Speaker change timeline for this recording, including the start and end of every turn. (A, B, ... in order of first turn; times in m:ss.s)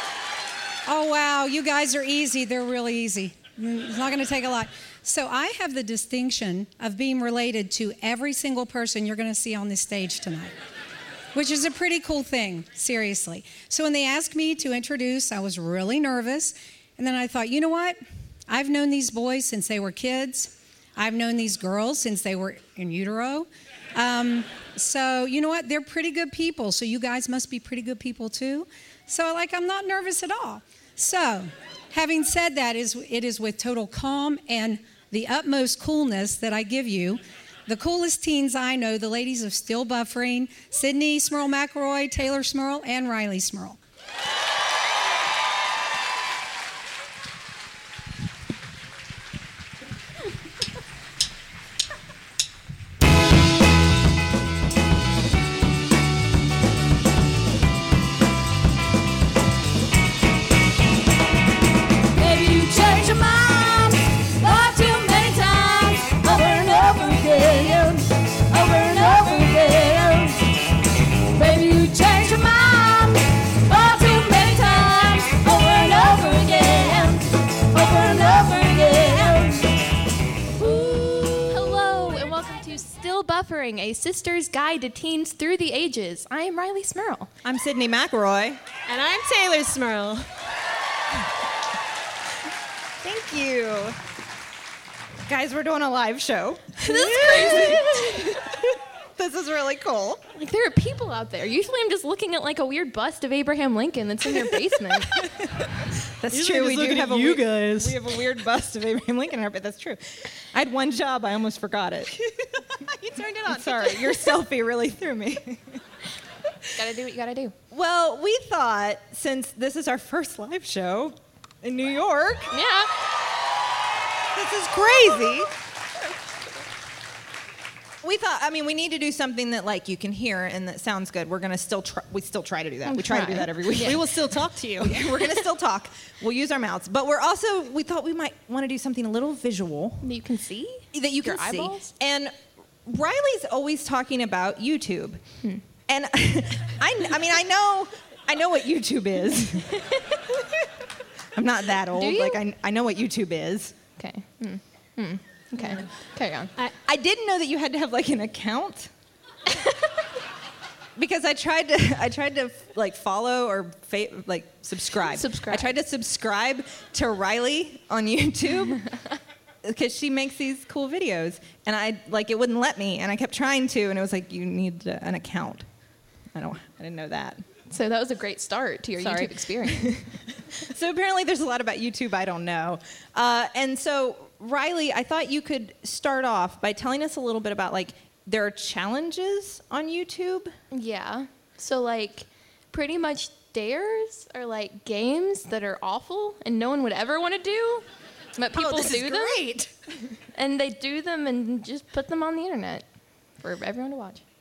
0:00.9-0:10.5 A
0:11.3-0:18.0 A
0:18.5-0:43.8 A
1:02.1-1:10.5 B
1:11.3-1:19.8 B
1:20.6-1:21.5 B
1:21.5-1:27.3 C
1:27.4-1:28.6 D
1:28.9-1:30.3 E
1:33.0-1:34.0 D
1:35.2-1:38.6 D
1:36.8-1:38.4 C
1:37.1-1:37.8 E
1:39.2-1:40.2 D
1:40.3-1:45.3 C
1:46.2-1:52.1 D
1:46.3-1:48.1 E
1:52.2-1:54.3 E
1:53.5-1:55.8 D
1:56.7-1:57.5 C
1:57.7-2:02.5 D
2:02.5-2:02.9 C
2:04.3-2:05.5 D
2:08.0-2:14.1 D
2:12.8-2:14.0 C
2:13.7-2:15.4 E
2:14.8-2:20.1 D
2:20.0-2:21.9 C
2:20.9-2:25.2 D
2:25.9-2:29.7 D
2:29.7-2:30.2 C
2:31.3-2:33.8 D
2:31.9-2:32.4 C
2:34.0-2:36.5 C
2:36.6-2:38.9 D
2:41.0-2:48.8 D
2:45.0-2:45.8 C
2:49.6-2:55.6 D
2:56.3-2:57.4 D
2:57.7-3:00.0 C
2:59.0-3:10.5 D
3:10.7-3:17.8 C
3:18.4-3:19.4 C
3:18.6-3:19.7 E
3:18.6-3:19.2 D
3:20.3-3:22.8 C
3:23.4-3:24.2 C